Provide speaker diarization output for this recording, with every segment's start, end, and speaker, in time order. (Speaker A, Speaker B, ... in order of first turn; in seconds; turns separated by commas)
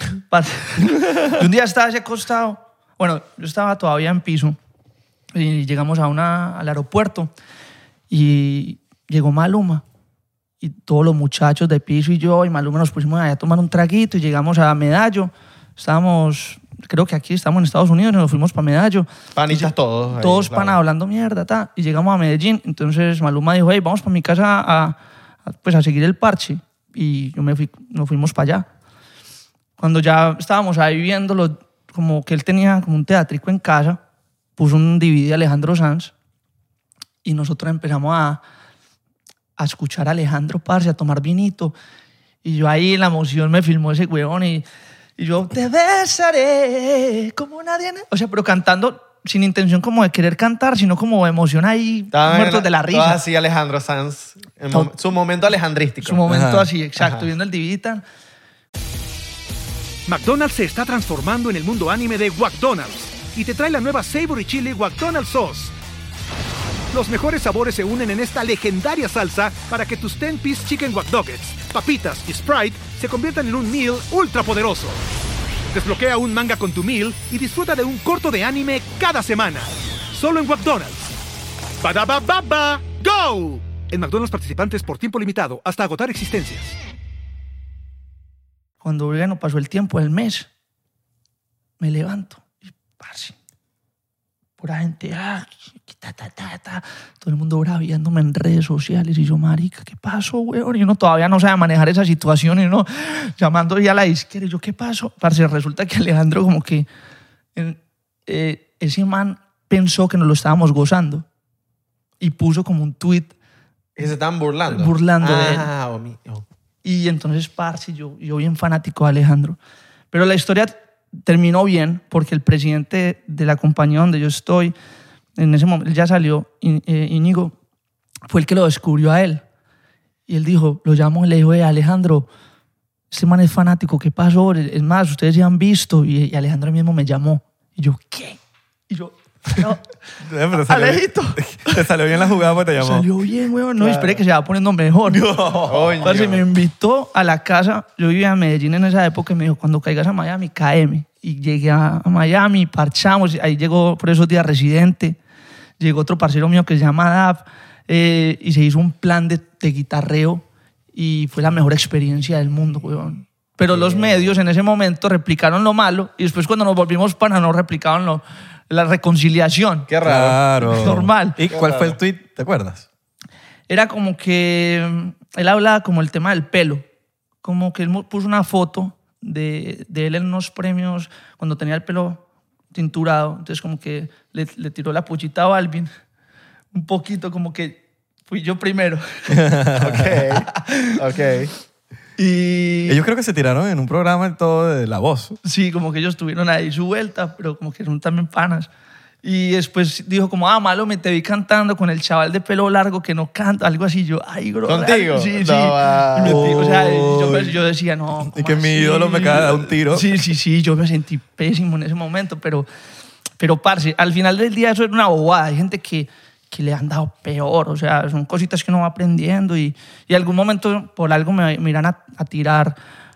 Speaker A: 0.3-4.6, Speaker A: 5.3-7.3, Speaker A: 8.1-9.8, Speaker A: 10.6-28.7, Speaker B: 19.4-20.8, Speaker A: 29.8-34.0, Speaker A: 34.6-36.1, Speaker A: 37.2-38.4, Speaker A: 39.6-41.8, Speaker A: 42.4-44.7, Speaker A: 45.2-53.2, Speaker B: 52.1-56.2, Speaker A: 56.0-58.0, Speaker C: 56.3-56.7, Speaker B: 57.0-57.3, Speaker D: 60.1-65.7, Speaker D: 66.9-75.0, Speaker D: 75.7-81.0, Speaker D: 81.8-86.8, Speaker A: 88.8-90.5, Speaker A: 91.8-93.3, Speaker A: 94.6-106.9, Speaker A: 107.5-111.2, Speaker A: 112.2-113.3, Speaker B: 114.0-116.5, Speaker A: 114.7-115.7, Speaker A: 116.8-119.6, Speaker A: 120.1-124.7, Speaker A: 125.4-127.5, Speaker A: 128.3-129.4, Speaker A: 130.3-132.3, Speaker A: 133.1-138.4, Speaker A: 138.9-139.9, Speaker C: 140.2-143.1, Speaker A: 140.5-141.9, Speaker A: 142.8-145.4, Speaker B: 143.8-144.2, Speaker C: 145.1-146.2, Speaker B: 145.7-146.4, Speaker A: 146.0-155.2, Speaker A: 155.8-169.9, Speaker B: 163.7-164.4, Speaker B: 169.9-170.9, Speaker C: 170.0-172.9, Speaker A: 170.6-171.4, Speaker B: 171.5-172.0, Speaker A: 173.7-176.8, Speaker A: 177.4-185.9, Speaker A: 186.7-189.4, Speaker C: 189.3-190.2, Speaker B: 189.8-191.5, Speaker A: 190.5-191.0, Speaker A: 192.2-193.0, Speaker C: 192.9-195.4, Speaker A: 195.4-198.7, Speaker A: 199.2-212.7, Speaker B: 204.7-206.6, Speaker C: 206.2-207.6, Speaker C: 208.2-210.2, Speaker A: 213.4-222.8